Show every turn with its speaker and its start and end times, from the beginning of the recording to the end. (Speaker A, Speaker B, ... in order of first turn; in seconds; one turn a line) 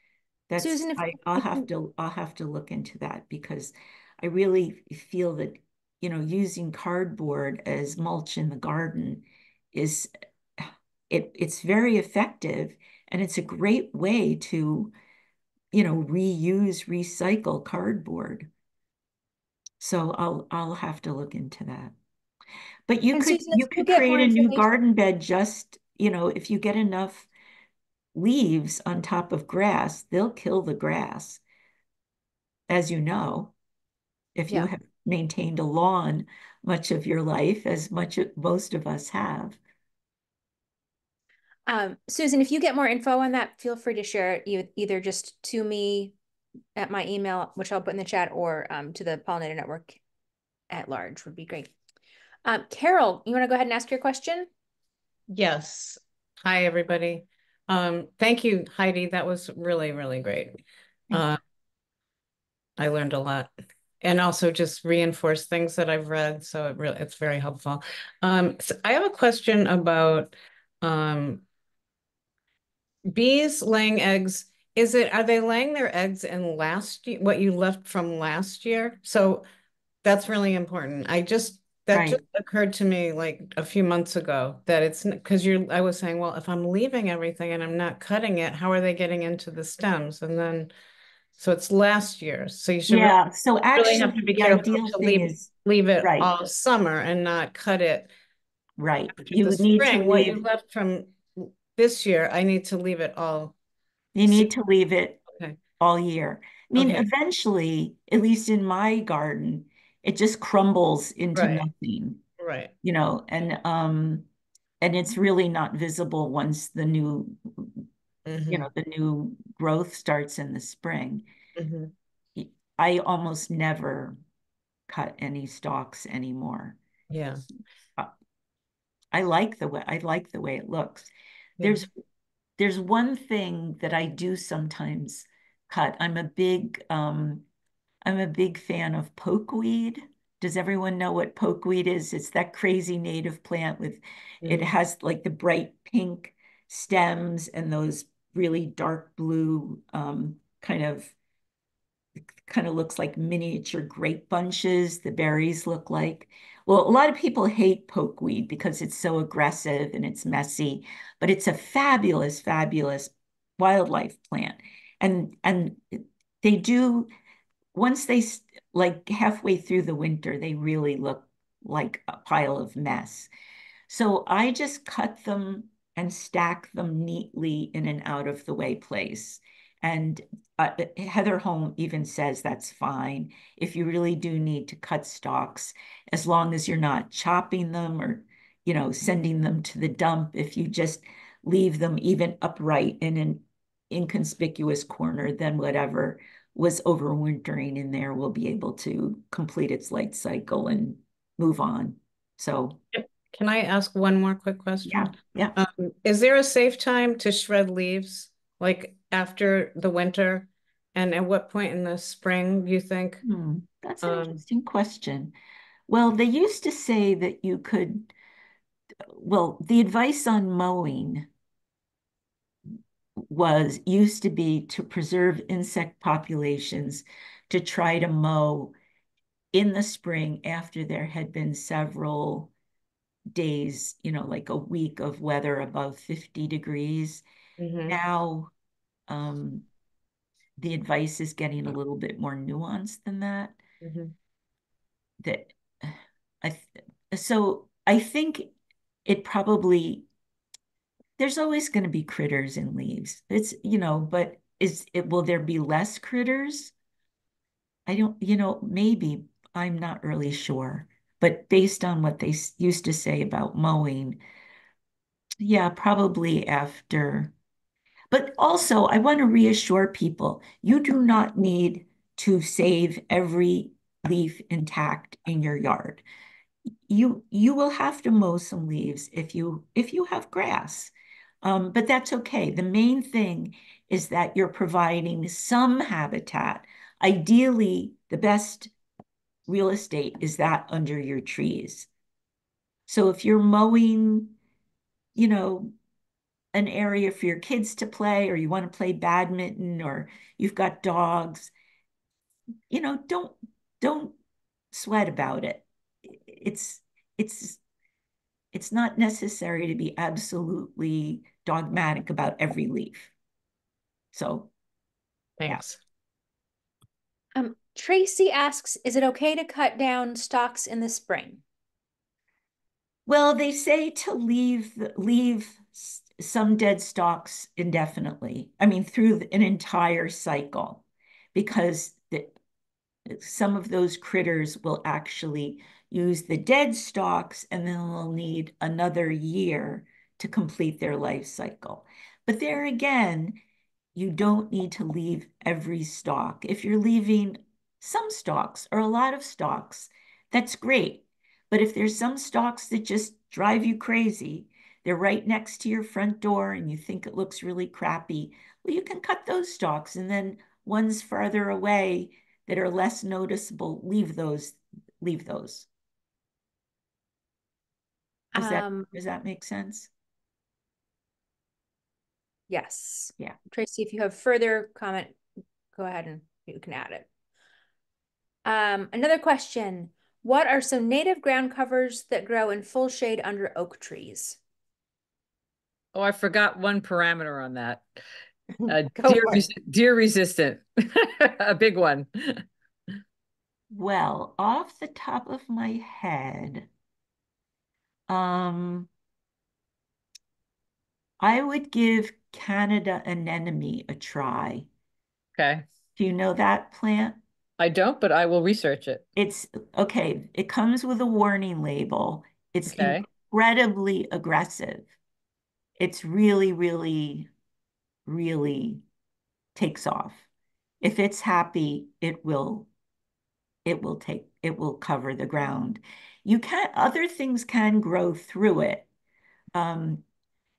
Speaker A: 0.5-14.9
Speaker B: 0.6-1.7
Speaker A: 15.7-18.5
Speaker A: 19.8-21.9
Speaker A: 22.9-27.3
Speaker B: 23.1-24.7
Speaker A: 28.1-31.4
Speaker A: 32.7-33.5
Speaker A: 34.4-39.6
Speaker B: 41.7-46.1
Speaker B: 46.8-50.0
Speaker B: 50.7-51.7
Speaker B: 52.5-54.5
Speaker C: 55.3-61.4
Speaker C: 62.8-71.5
Speaker C: 73.1-79.4
Speaker C: 80.0-90.7
Speaker A: 81.9-82.2
Speaker C: 91.4-93.2
Speaker A: 92.9-95.5
Speaker C: 93.8-98.1
Speaker A: 96.0-96.3
Speaker A: 98.8-100.4
Speaker C: 99.2-103.5
Speaker A: 104.2-105.2
Speaker A: 105.8-112.2
Speaker C: 106.8-107.1
Speaker C: 111.3-111.7
Speaker C: 112.4-112.7
Speaker A: 112.8-114.3
Speaker A: 114.8-117.9
Speaker C: 118.3-118.7
Speaker A: 118.5-121.3
Speaker C: 121.6-121.9
Speaker A: 122.4-124.2
Speaker A: 124.9-126.8
Speaker C: 127.1-127.4
Speaker A: 129.1-131.9
Speaker C: 131.6-131.9
Speaker A: 132.6-137.4
Speaker A: 138.0-151.2
Speaker A: 152.4-167.1
Speaker A: 167.7-173.3
Speaker A: 173.9-202.8
Speaker C: 202.9-213.2
Speaker A: 204.8-205.6
Speaker A: 213.2-215.3
Speaker C: 214.0-214.4
Speaker A: 215.9-218.1
Speaker A: 219.1-221.3
Speaker A: 223.2-228.7
Speaker A: 229.5-232.5
Speaker A: 233.3-237.2
Speaker C: 237.6-238.0
Speaker A: 237.9-238.5
Speaker A: 239.1-239.7
Speaker A: 240.6-243.6
Speaker C: 243.8-244.1
Speaker A: 245.2-248.5
Speaker A: 249.1-250.1
Speaker A: 251.2-256.7
Speaker A: 257.9-264.2
Speaker A: 265.4-267.3
Speaker A: 268.1-276.0
Speaker A: 276.9-288.7
Speaker A: 289.5-291.9
Speaker A: 292.9-294.4
Speaker A: 295.2-295.7
Speaker A: 296.5-301.5
Speaker A: 302.7-304.2
Speaker A: 304.7-307.6
Speaker A: 308.5-313.1
Speaker A: 314.1-314.5
Speaker C: 315.4-315.8
Speaker B: 317.4-321.4
Speaker A: 323.1-332.4
Speaker A: 333.1-343.4
Speaker A: 343.9-365.7
Speaker B: 368.3-368.9
Speaker A: 368.4-369.9
Speaker B: 372.5-375.2
Speaker B: 375.7-377.1
Speaker B: 378.4-384.4
Speaker D: 385.9-388.0
Speaker D: 388.7-392.4
Speaker A: 393.7-396.7
Speaker A: 398.1-398.9
Speaker A: 401.2-404.7
Speaker D: 405.4-405.6
Speaker A: 406.0-407.2
Speaker D: 407.6-409.0
Speaker A: 409.2-414.9
Speaker D: 412.7-413.0
Speaker A: 415.8-417.3
Speaker A: 418.1-418.8
Speaker A: 419.6-420.2
Speaker A: 420.8-422.7
Speaker A: 423.6-428.9
Speaker A: 429.6-430.0